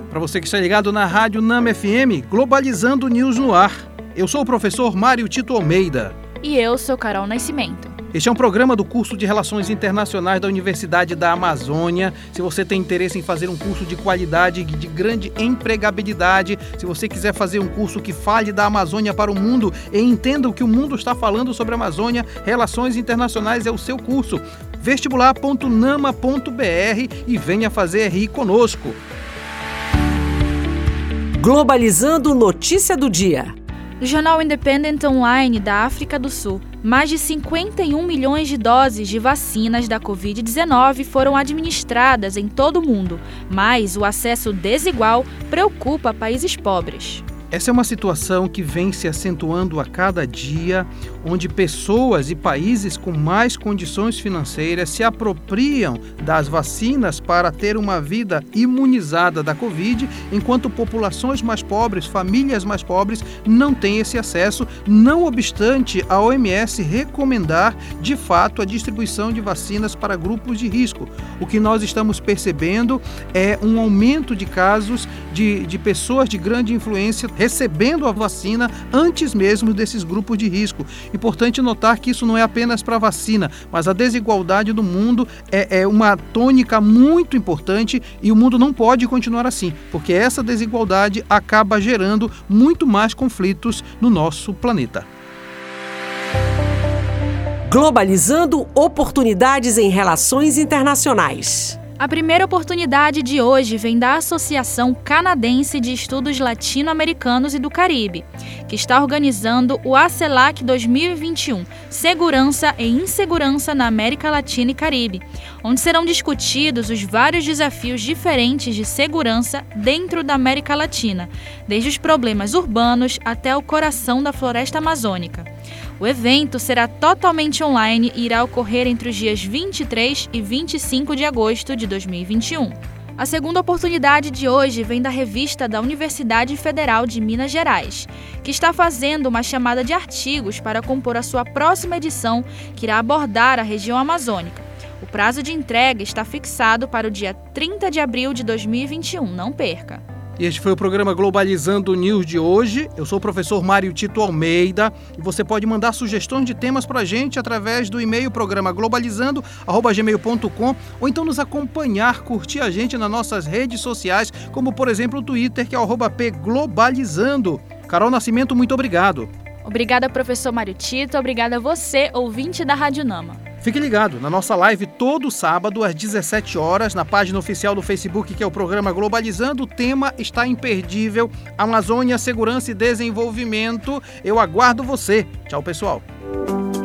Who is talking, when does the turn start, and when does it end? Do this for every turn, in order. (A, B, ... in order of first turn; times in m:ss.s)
0:00.1-0:06.2 A
0:06.4-0:08.0 B
0:08.1-0:29.0 A
0:31.4-0:33.5 C
0:34.0-0:47.2 B
0:47.5-1:35.0 A
1:37.6-1:41.8 C
1:42.0-2:05.5 B
2:06.0-2:30.0 B
2:30.4-2:49.3 A
2:49.6-2:53.4 B
2:53.6-3:06.0 A